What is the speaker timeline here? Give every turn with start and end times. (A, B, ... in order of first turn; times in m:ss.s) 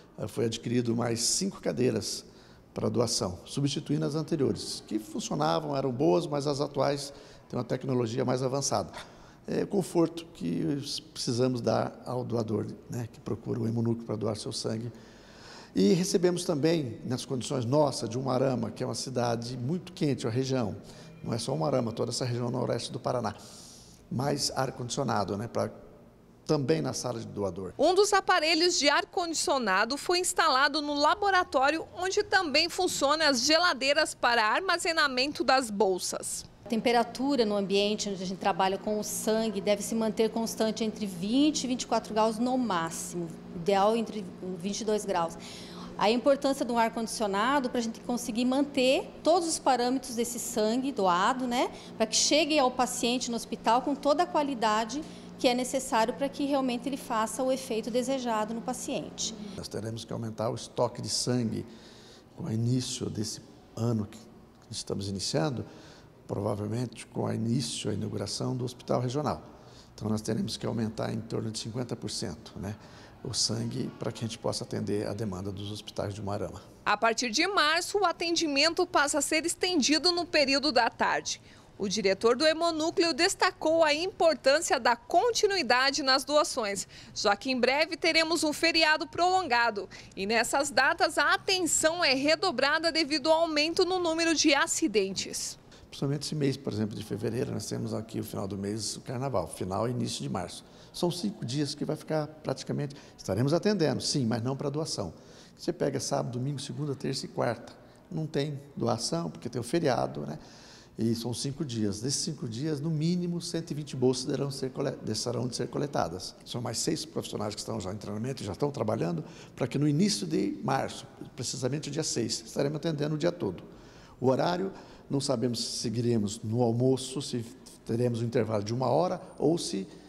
0:00.2-0:08.9 A
0:09.5-0:14.9 A
0:15.7-0:23.4 A
0:24.1-0:25.7 A
0:26.5-0:27.8 A
0:27.8-0:36.5 B
0:36.7-0:45.4 C
0:46.0-0:59.4 C
0:59.6-1:01.7 A
1:02.4-1:05.6 A
1:06.3-1:09.4 A
1:10.0-1:16.6 A
1:16.9-1:35.6 B
1:35.9-1:50.4 A
1:51.0-2:03.7 A
2:04.2-2:09.9 A